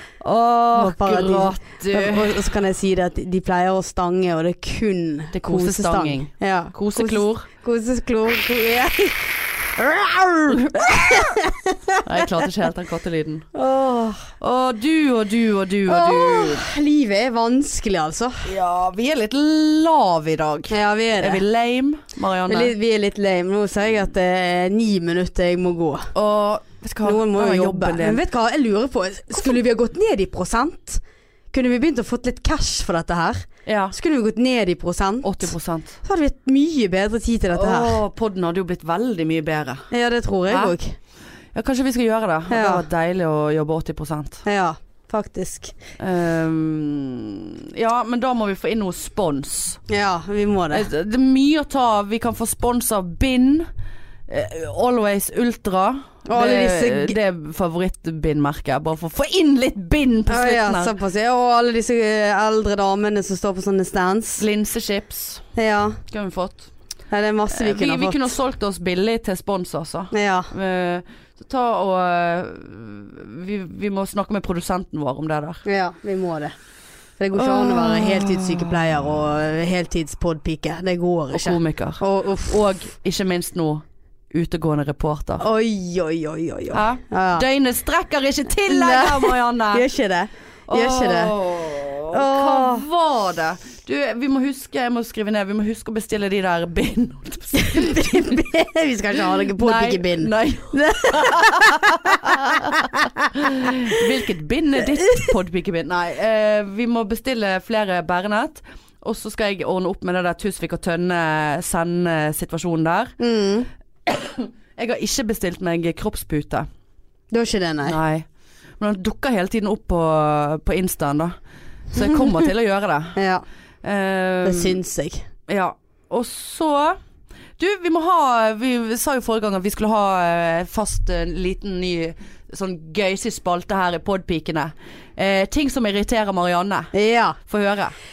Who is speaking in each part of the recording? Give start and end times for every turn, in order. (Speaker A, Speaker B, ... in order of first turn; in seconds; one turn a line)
Speaker A: 0.2-2.5
Speaker B: 0.7-12.4
Speaker A: 5.3-7.4
Speaker A: 10.5-11.3
Speaker A: 12.0-13.4
Speaker B: 13.5-14.3
Speaker A: 14.4-16.6
Speaker B: 15.9-18.5
Speaker A: 18.4-22.7
Speaker B: 20.7-21.4
Speaker B: 22.5-26.1
Speaker A: 26.1-28.2
Speaker B: 27.0-35.5
Speaker A: 29.3-29.6
Speaker A: 33.6-33.9
Speaker A: 35.2-36.0
Speaker B: 36.0-38.0
Speaker A: 37.5-39.8
Speaker B: 39.9-41.0
Speaker A: 40.5-40.7
Speaker A: 41.5-44.4
Speaker B: 42.5-42.8
Speaker B: 44.4-45.7
Speaker A: 46.0-49.8
Speaker B: 49.9-50.9
Speaker A: 50.7-53.7
Speaker A: 54.3-60.9
Speaker B: 56.3-57.1
Speaker B: 60.3-64.4
Speaker A: 64.4-65.4
Speaker B: 65.5-66.0
Speaker A: 66.1-66.7
Speaker B: 67.1-68.3
Speaker A: 67.5-75.6
Speaker B: 70.1-70.5
Speaker B: 75.6-76.5
Speaker B: 77.2-82.6
Speaker A: 77.3-79.1
Speaker A: 81.3-85.4
Speaker B: 85.4-87.5
Speaker A: 86.7-89.8
Speaker B: 88.7-91.3
Speaker A: 90.7-98.3
Speaker B: 92.1-92.9
Speaker B: 97.5-104.0
Speaker A: 99.5-113.2
Speaker B: 113.2-113.7
Speaker A: 114.0-116.7
Speaker B: 117.3-118.0
Speaker A: 117.8-118.2
Speaker A: 118.8-121.3
Speaker A: 121.9-123.2
Speaker B: 122.0-122.3
Speaker B: 123.1-123.4
Speaker A: 123.8-124.8
Speaker B: 124.4-125.2
Speaker A: 125.5-127.0
Speaker A: 127.6-136.9
Speaker B: 136.9-137.4
Speaker A: 137.5-137.9